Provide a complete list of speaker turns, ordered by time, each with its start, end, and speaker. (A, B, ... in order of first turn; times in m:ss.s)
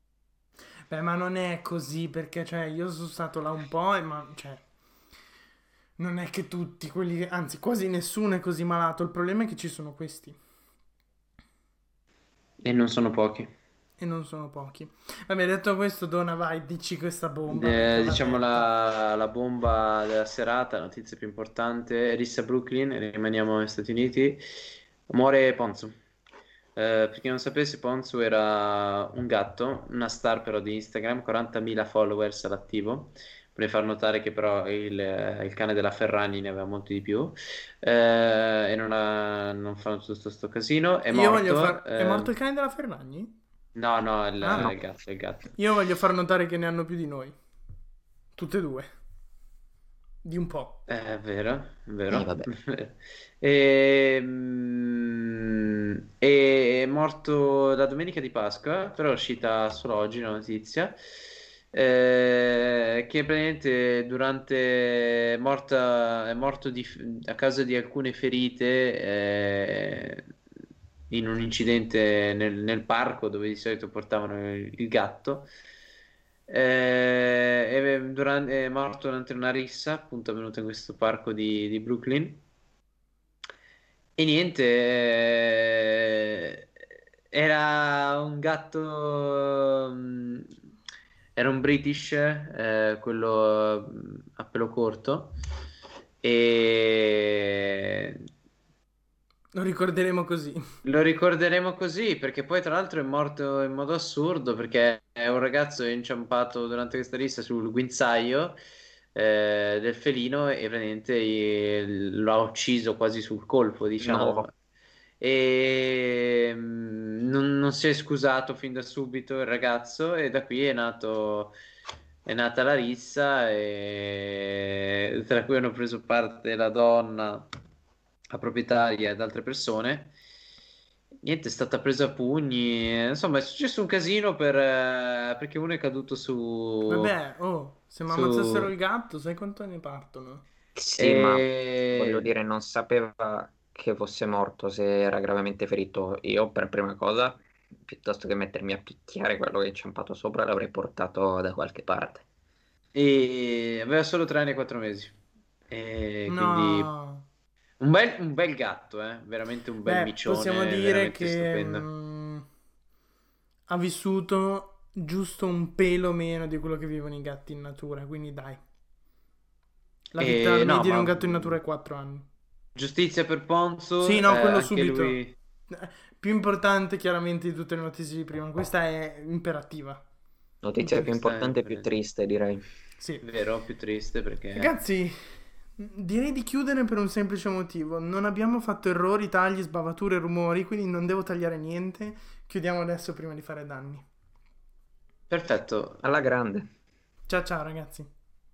0:00.9-0:04.6 A
0:06.0-0:10.4 A
0:12.6-0:13.5 B
0:14.0-0:18.7 A
0:17.5-0:24.4 B
0:25.1-0:26.0 B
0:26.8-0:42.3 B
0:41.1-0:43.3 A
0:43.8-0:45.5 B
0:44.4-0:44.7 A
0:45.6-0:47.4 A
0:48.4-0:48.9 A
0:50.2-0:50.8 A
0:50.9-1:01.0 B
0:52.1-0:52.5 C
1:01.7-1:10.3 B
1:11.1-1:15.5 B
1:16.5-1:22.4 B
1:24.2-1:26.7 B
1:27.3-1:30.5 B
1:31.4-1:35.4 B
1:36.2-1:38.2 B
1:39.6-1:40.6 A
1:40.8-1:48.6 B
1:49.1-1:54.5 B
1:54.0-1:54.5 C
1:55.2-2:01.6 B
2:02.3-2:07.5 B
2:08.3-2:10.1 B
2:11.2-2:17.1 B
2:16.9-2:20.4 A
2:18.1-2:18.7 B
2:20.8-2:32.2 C
2:21.0-2:22.3 B
2:32.9-2:35.2 B
2:35.7-2:36.9 B
2:36.3-2:37.2 A
2:37.8-2:41.9 B
2:39.8-2:42.4 A
2:43.7-2:48.6 A
2:50.1-2:52.3 A
2:50.2-2:51.6 B
2:52.8-2:55.4 B
2:54.0-2:55.2 A
2:55.7-3:00.0 A
3:00.6-3:02.6 C
3:00.8-3:01.1 A
3:01.1-3:01.9 B
3:03.0-3:03.2 A
3:03.2-3:04.8 B
3:04.6-3:14.1 A
3:15.3-3:16.1 B
3:16.0-3:16.7 C
3:17.3-3:18.1 A